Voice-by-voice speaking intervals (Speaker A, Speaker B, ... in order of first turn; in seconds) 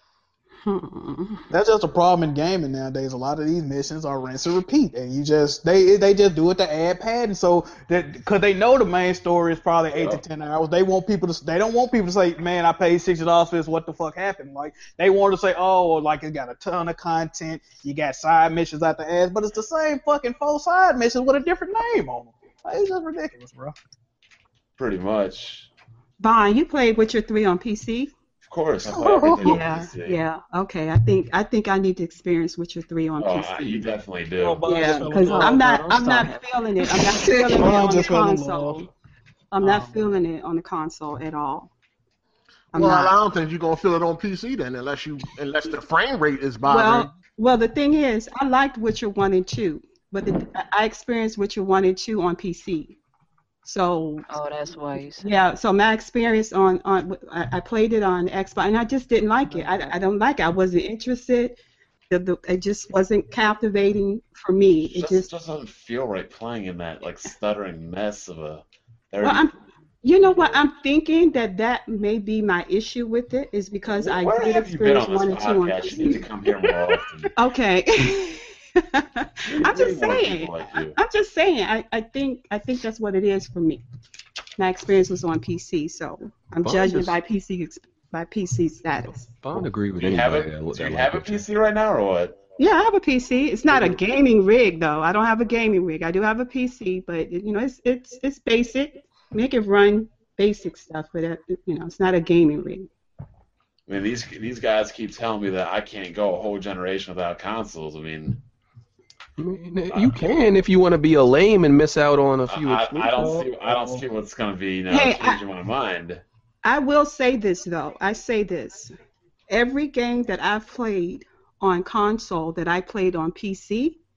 Speaker A: 0.7-1.5, 26.2-28.1, 29.4-34.0, 34.7-38.9, 39.5-41.7, 42.7-43.1, 46.7-53.0, 53.6-54.3, 55.2-61.6, 62.1-65.3, 69.2-69.5, 70.0-83.8, 84.6-89.3, 92.6-102.9, 114.9-115.4, 116.6-118.9, 119.5-124.0
Speaker B: 1.5-23.8, 28.9-29.6, 34.4-36.4, 37.5-38.9, 39.6-40.0, 59.5-59.9, 113.2-114.0
Speaker C: 9.9-10.2, 24.8-25.7, 28.4-30.2, 33.2-35.5, 64.8-69.5, 70.2-70.7, 73.8-77.3, 79.5-81.0, 89.5-92.4, 93.7-94.0, 103.9-108.4, 109.9-110.3, 112.5-116.2
Speaker D: 36.8-37.9, 54.3-55.3
Speaker E: 42.7-47.1
Speaker F: 86.6-87.2, 89.4-91.5, 109.4-113.3